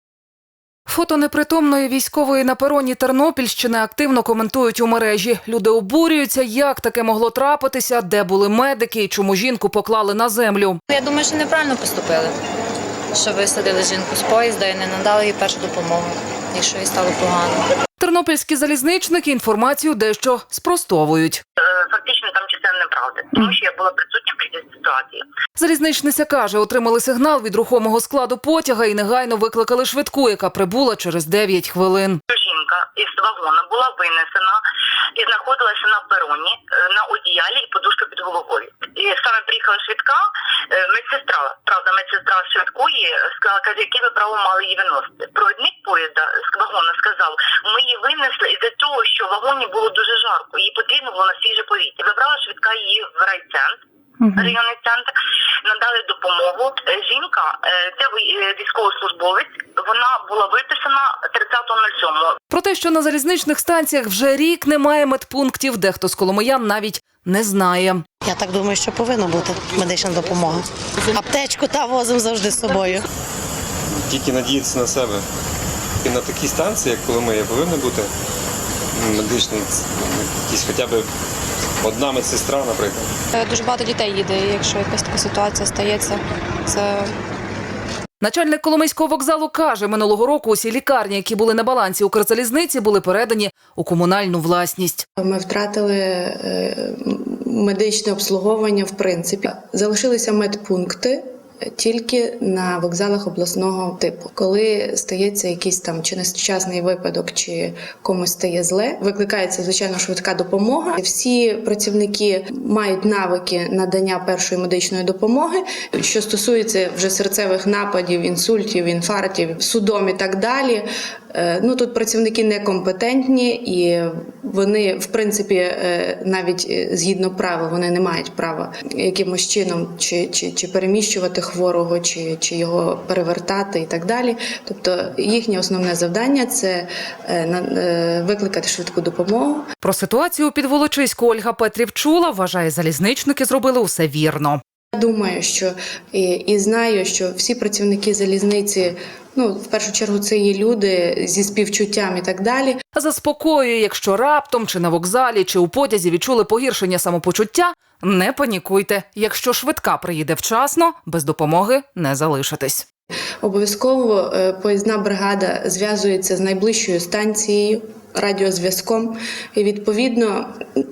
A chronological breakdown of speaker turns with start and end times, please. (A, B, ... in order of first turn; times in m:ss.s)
0:00.9-0:10.8 A
0:10.9-0:12.3 B
0:13.2-0:17.6 B
0:18.0-0:21.4 A
0:21.6-0:25.2 C
0:25.6-0:32.2 A
0:32.3-0:34.6 C
0:35.2-0:53.8 C
0:54.2-0:54.5 A
0:54.4-0:55.1 C
0:55.6-1:02.4 C
1:02.5-1:08.0 A
1:08.2-1:13.0 D
1:14.1-1:15.2 E
1:16.0-1:18.1 E
1:19.0-1:21.1 E
1:21.8-1:23.1 E
1:23.3-1:27.1 F
1:28.2-1:35.0 A
1:35.2-2:19.6 G
2:19.8-2:24.6 A
2:24.9-2:32.8 G
2:33.0-2:42.8 A
2:43.4-2:50.5 G